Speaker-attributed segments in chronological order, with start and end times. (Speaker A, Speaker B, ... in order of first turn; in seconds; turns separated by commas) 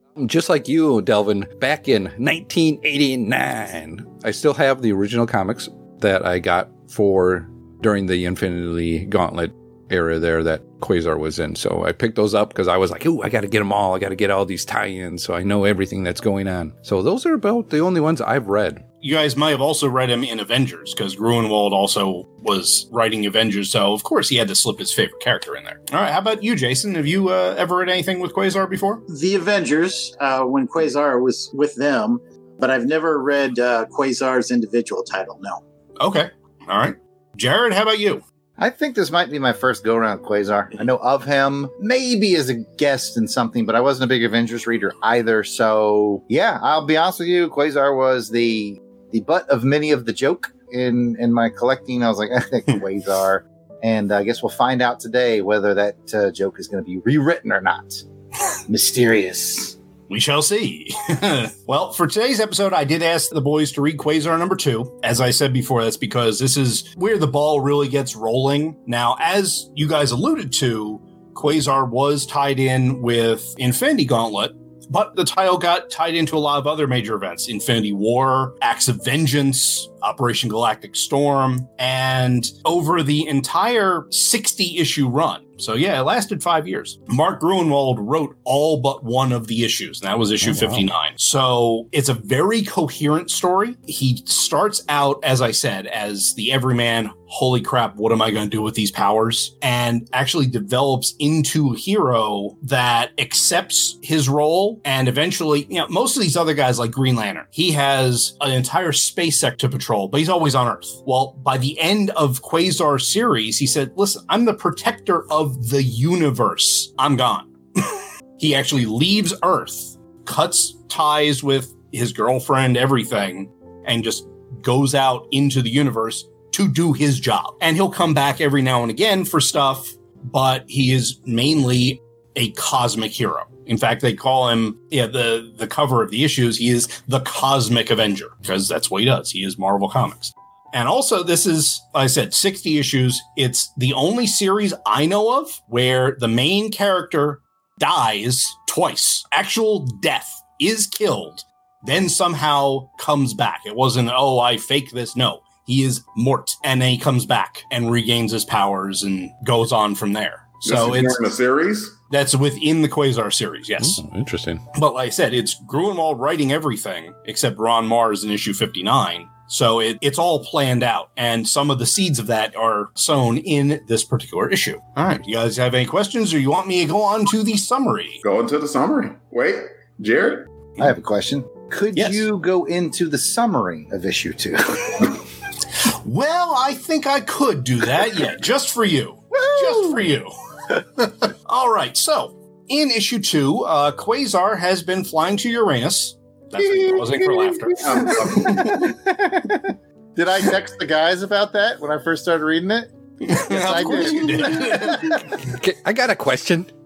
Speaker A: 0.2-18.8, Speaker B: 19.0-29.0, Speaker C: 29.1-35.6, Speaker B: 36.0-38.2, Speaker D: 38.6-58.0, Speaker D: 58.7-59.8, Speaker B: 60.1-161.2, Speaker A: 90.4-90.9, Speaker E: 160.6-162.0, Speaker B: 162.1-164.0, Speaker A: 163.8-164.6, Speaker B: 164.7-178.2, Speaker E: 178.2-180.5, Speaker D: 180.8-185.1, Speaker B: 182.0-182.2, Speaker B: 186.0-190.3, Speaker B: 191.1-198.8, Speaker E: 197.8-198.9, Speaker D: 198.4-205.2, Speaker B: 203.2-205.2, Speaker A: 205.4-206.7